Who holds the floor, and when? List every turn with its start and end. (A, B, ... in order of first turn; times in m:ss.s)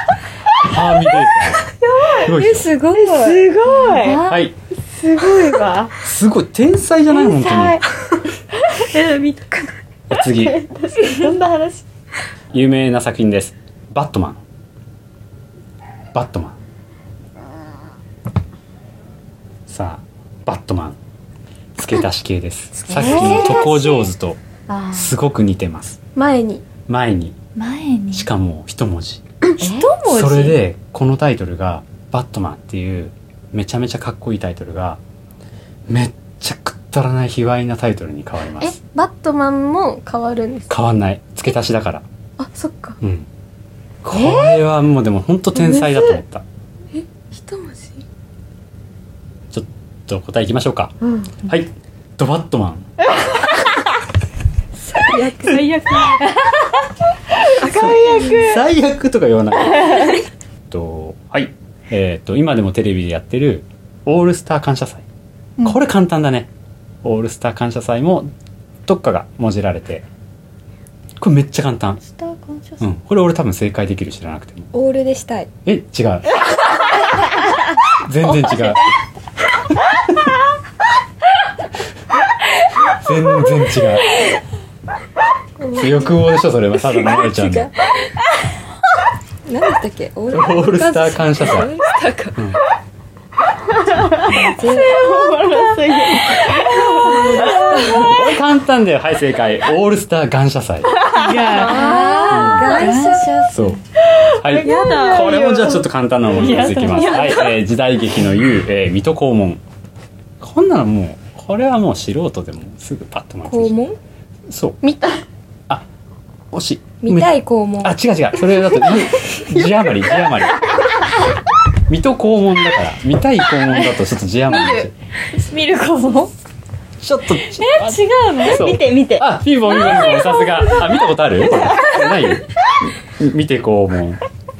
0:00.6-0:02.7 A
0:01.8-0:02.2 B
0:02.2-0:03.5 C
0:02.9-0:06.0 B
0:03.8-0:04.2 D
0:04.2-0:04.6 A
0:06.0-0:07.8 A
0:07.2-0:07.8 B
0:08.6-0:08.9 B
0:08.9-0:09.7 E
0:10.1-0:10.6 A
0:10.4-0:11.8 B
0:12.5-0:14.4 A
0:16.1-0:16.6 A
0:19.7-0:21.0 A
0:21.8-0:24.4 A
0:22.9-0:23.9 B
0:24.7-0:25.1 B
0:24.9-0:26.0 A
0:26.2-0:26.6 E
0:26.9-0:27.4 A
0:27.6-0:28.3 D
0:28.1-0:29.2 A
0:29.6-0:30.6 D
0:29.6-0:30.0 B
0:30.0-0:35.0 A
0:35.9-0:38.8 A
0:38.6-0:40.8 E
0:40.7-0:42.0 A
0:42.4-0:43.0 E
0:43.0-0:43.3 A
0:44.0-0:46.4 A
0:44.1-0:44.6 B
0:45.6-0:46.1 B
0:46.9-0:48.0 E
0:49.5-0:52.9 A
0:51.0-0:51.4 B
0:54.8-0:55.7 C
0:55.1-0:56.3 E
0:57.4-0:58.6 B
0:57.7-0:58.4 E
0:57.7-1:00.2 A
1:00.7-1:05.0 A
1:05.6-1:06.5 A
1:07.0-1:08.3 A
1:08.9-1:10.1 A
1:11.2-1:12.0 A
1:12.0-1:12.8 D
1:12.8-1:14.7 A
1:14.7-1:15.5 C
1:15.7-1:16.4 A
1:17.9-1:18.9 A
1:19.9-1:20.3 A
1:22.9-1:24.2 A
1:25.6-1:26.0 E
1:25.7-1:27.7 A
1:29.5-1:32.4 C
1:30.3-1:31.7 A
1:33.8-1:37.9 B
1:34.3-1:35.4 C
1:36.8-1:38.2 C
1:37.8-1:41.0 A
1:41.0-1:42.0 B
1:41.1-1:43.8 D
1:41.4-1:42.6 E
1:41.8-1:43.4 C
1:42.3-1:42.8 A
1:43.5-1:43.8 A
1:44.1-1:45.5 B
1:44.3-1:49.6 A
1:44.6-1:45.8 E
1:46.3-1:47.4 D
1:46.9-1:47.6 E
1:50.4-1:53.8 A
1:53.5-1:54.0 C
1:54.5-1:54.8 A
1:54.8-1:55.2 E
1:56.5-2:00.6 A
1:57.0-1:58.0 C
2:01.9-2:04.9 A
2:04.5-2:04.9 E
2:05.3-2:06.3 D
2:07.0-2:14.2 A
2:07.6-2:08.6 D
2:08.5-2:09.3 B
2:09.9-2:10.3 B
2:11.6-2:12.3 B